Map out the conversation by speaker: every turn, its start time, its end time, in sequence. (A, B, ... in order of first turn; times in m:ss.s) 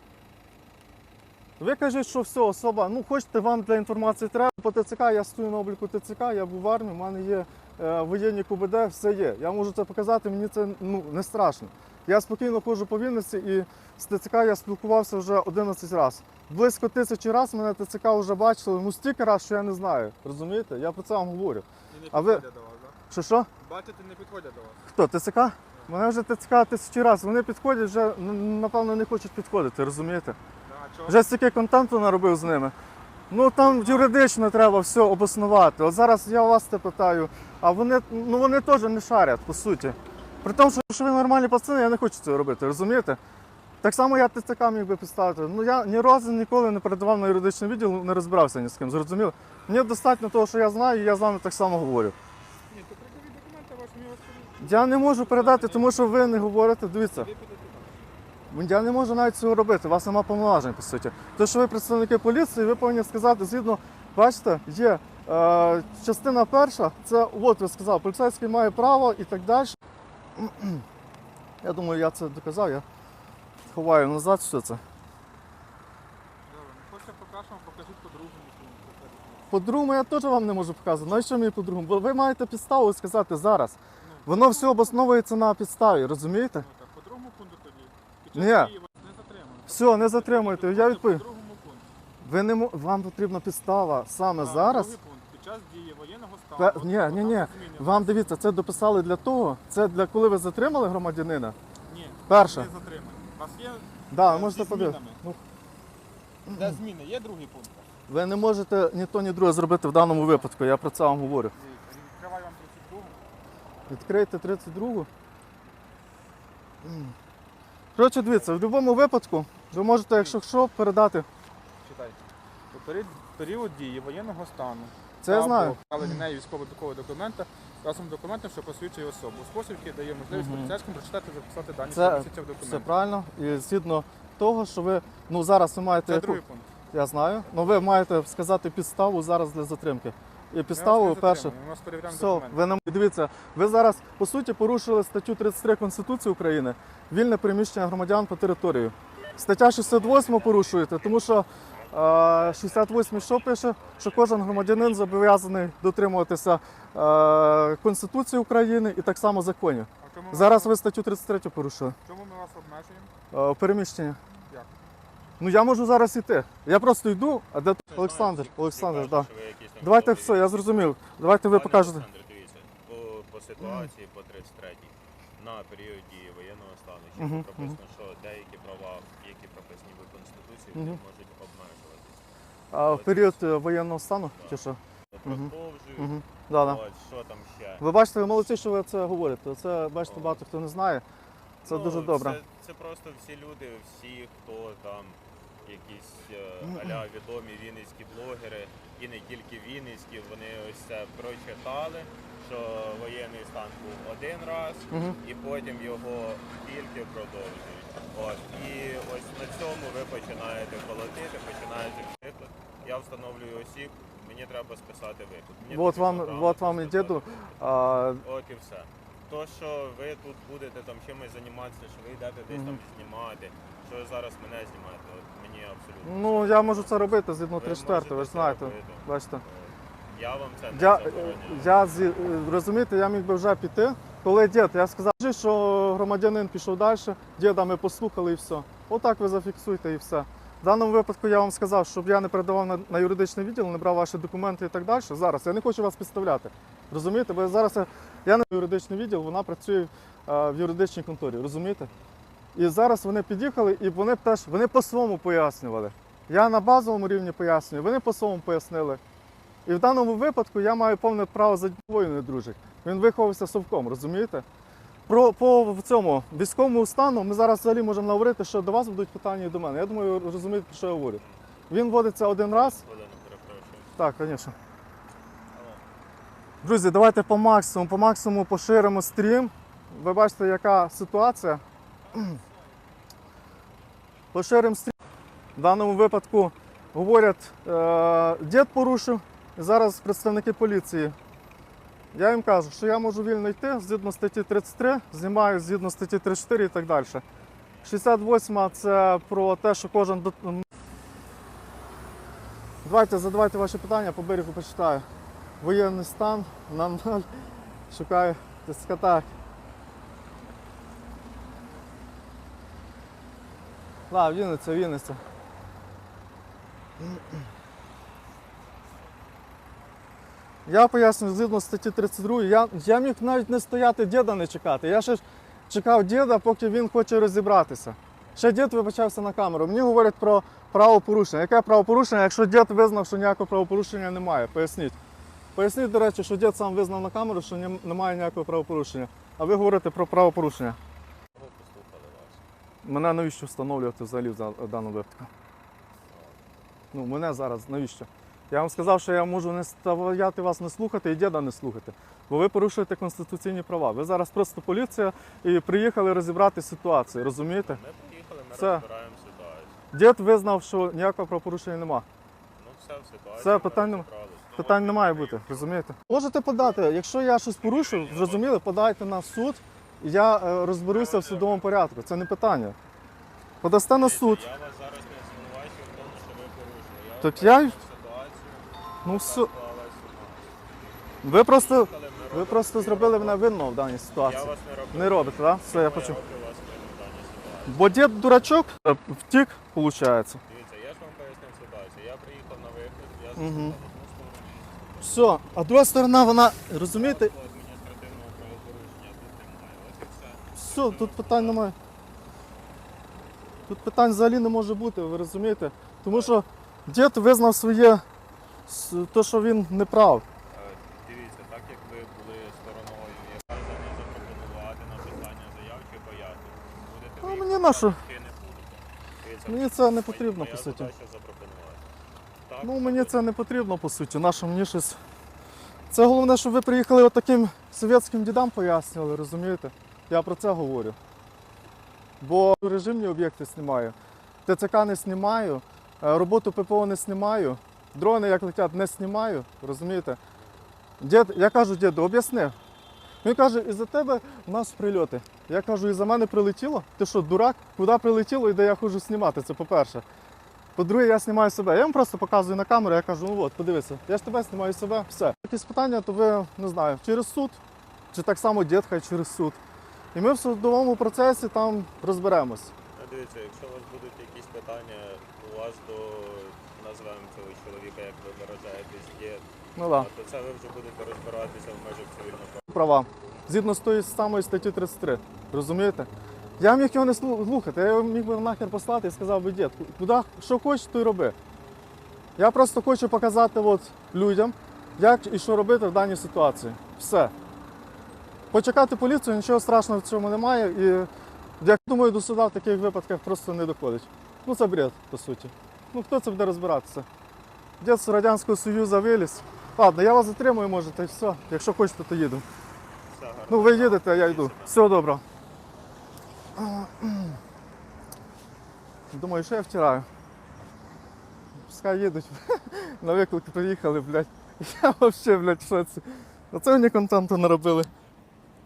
0:01.6-0:22.4 A
0:21.9-0:23.0 B
0:23.1-0:23.5 A
0:23.6-0:24.9 B
0:24.9-0:30.4 A
0:30.6-0:31.3 B
0:31.1-0:32.8 A
0:33.3-0:43.2 A
0:33.6-0:34.1 B
0:43.8-0:52.2 A
0:52.7-0:56.4 B
0:54.6-0:57.3 A
0:57.0-0:58.1 B
0:58.5-1:09.8 A
1:10.4-1:10.8 A
1:11.6-1:12.8 A
1:13.7-1:14.8 A
1:16.5-1:19.5 B
1:19.5-1:26.7 A
1:24.0-1:25.0 B
1:26.5-1:31.9 B
1:28.3-1:28.7 A
1:29.7-1:31.2 A
1:32.2-1:35.0 A
1:34.4-1:38.3 B
1:36.6-1:41.6 A
1:41.9-1:45.2 B
1:42.3-1:42.7 A
1:44.1-1:45.4 A
1:46.5-1:47.9 B
1:46.5-1:46.8 A
1:48.1-1:51.5 A
1:51.6-1:53.2 B
1:53.9-1:55.1 A
1:56.8-1:57.1 A
1:58.0-2:01.3 A
2:01.8-2:02.2 B
2:02.7-2:12.9 B
2:05.2-2:06.2 A
2:10.3-2:10.8 A
2:11.9-2:16.4 A
2:16.0-2:16.7 B
2:16.9-2:21.5 A
2:20.7-2:22.7 B
2:22.1-2:42.0 A
2:29.8-2:35.3 C
2:40.0-2:40.7 B
2:42.0-2:43.1 B
2:43.3-2:44.2 A
2:45.4-2:49.3 A
2:47.9-3:02.2 C
2:49.8-2:52.0 A
2:53.6-2:53.9 A
2:57.2-2:57.8 A
3:00.8-3:01.0 A
3:02.7-3:06.8 A
3:02.8-3:03.6 C
3:04.3-3:07.9 C
3:07.8-3:11.0 A
3:10.0-3:10.4 C
3:11.6-3:37.6 C
3:11.6-3:12.4 A
3:24.9-3:25.2 A
3:35.7-3:38.2 A
3:38.2-3:51.9 C
3:42.5-3:42.8 A
3:46.0-3:49.4 A
3:50.7-4:11.9 A
4:12.6-4:19.0 A
4:19.7-4:24.4 A
4:25.1-4:32.8 A
4:31.2-4:31.4 C
4:32.5-4:34.0 C
4:34.0-4:34.6 A
4:35.5-4:35.8 C
4:36.6-4:41.6 A
4:42.1-4:42.4 A
4:44.3-4:45.0 A
4:45.6-4:51.2 A
4:52.1-4:57.2 A
4:57.8-5:00.6 A
5:02.8-5:05.1 A
5:05.6-5:07.3 A
5:07.9-5:09.3 A
5:14.1-5:15.2 A
5:20.7-5:35.0 A
5:35.6-5:40.8 A
5:41.4-5:42.4 C
5:42.8-5:45.3 A
5:46.1-5:46.4 C
5:46.9-5:57.8 A
5:57.6-5:59.8 C
5:58.6-5:58.8 A
5:59.9-6:02.1 A
6:02.6-6:05.8 C
6:03.4-6:12.8 A
6:07.6-6:08.6 C
6:10.9-6:11.7 C
6:13.6-6:14.5 A
6:13.9-6:20.4 C
6:17.2-6:17.8 A
6:19.0-6:19.5 A
6:21.2-6:26.2 A
6:21.3-6:23.5 C
6:24.2-6:28.0 C
6:27.7-6:30.4 A
6:30.5-6:35.4 C
6:33.4-6:33.8 A
6:35.0-6:37.3 A
6:36.9-6:41.7 C
6:40.6-6:41.8 A
6:43.7-6:48.0 A
6:46.1-6:46.4 C
6:48.7-6:50.2 A
6:50.5-7:01.9 C
6:57.2-6:58.0 A
6:59.5-7:00.9 A
7:02.5-7:03.2 C
7:02.6-7:05.0 A
7:05.9-7:11.0 A
7:12.2-7:14.0 A
7:14.5-7:20.2 A
7:20.4-7:20.7 C
7:21.0-7:22.6 A
7:23.2-7:30.0 A
7:30.8-7:37.6 A
7:38.1-7:39.6 A
7:40.1-7:42.7 A
7:42.9-7:52.7 C
7:49.8-7:50.1 A
7:52.7-8:01.4 A
8:02.4-8:07.3 A
8:08.5-8:11.1 A
8:11.6-8:17.1 A
8:17.8-8:22.4 A
8:23.1-8:24.9 C
8:23.5-8:25.2 A
8:26.6-8:27.4 A
8:29.1-8:30.1 A
8:31.7-8:37.9 A